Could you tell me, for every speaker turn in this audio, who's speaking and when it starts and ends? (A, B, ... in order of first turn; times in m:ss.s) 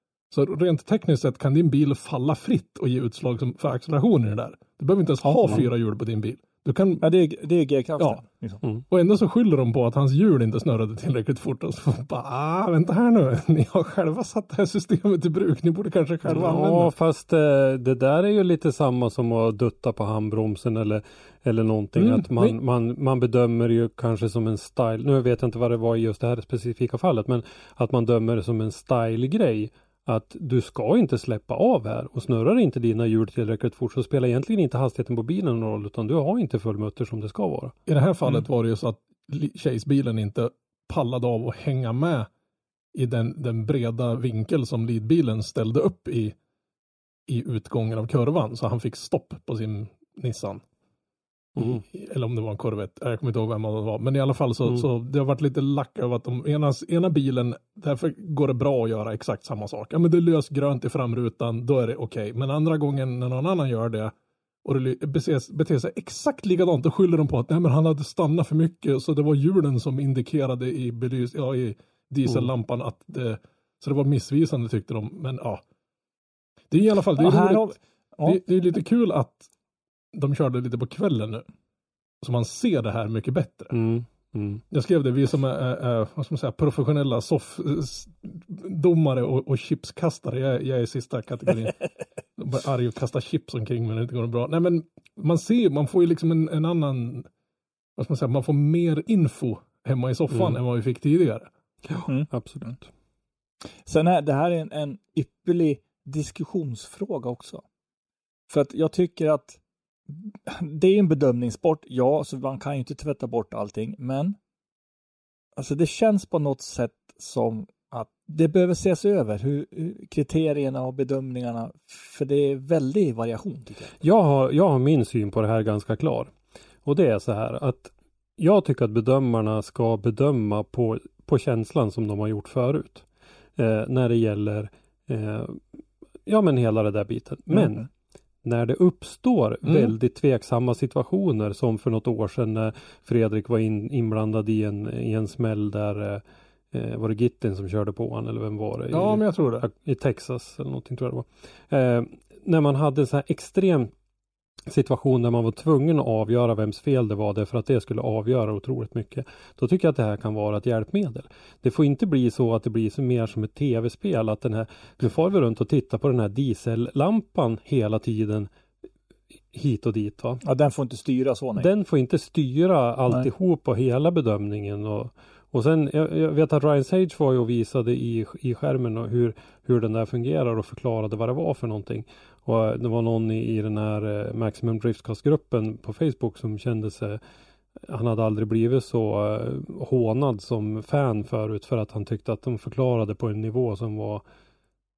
0:00.3-0:07.1 A
0:05.2-0:05.7 B
0:07.0-0:08.6 B
0:08.9-0:16.9 A
0:16.3-0:37.8 C
0:22.0-0:22.6 A
0:37.9-0:42.3 A
0:42.9-0:46.4 A
0:47.3-0:50.6 A
0:51.6-1:04.1 A
1:04.6-1:15.6 A
1:16.7-1:17.7 A
1:17.2-1:18.4 B
1:18.2-1:19.5 A
1:20.1-1:21.4 A
1:22.2-1:23.7 A
1:23.7-1:24.6 C
1:24.7-1:31.8 A
1:32.4-1:37.3 A
1:38.0-1:41.5 A
1:40.3-1:40.6 C
1:41.9-1:42.8 C
1:42.1-1:42.8 B
1:43.8-1:47.6 B
1:48.5-1:54.4 B
1:55.6-2:03.9 B
2:04.0-2:06.3 C
2:06.8-2:13.0 C
2:13.6-2:15.6 C
2:16.3-2:17.9 C
2:18.4-2:33.9 C
2:19.6-2:19.9 A
2:28.9-2:29.7 A
2:34.7-2:48.5 C
2:49.5-2:50.4 C
2:50.4-2:51.7 B
2:51.6-3:07.2 C
3:07.8-3:14.2 C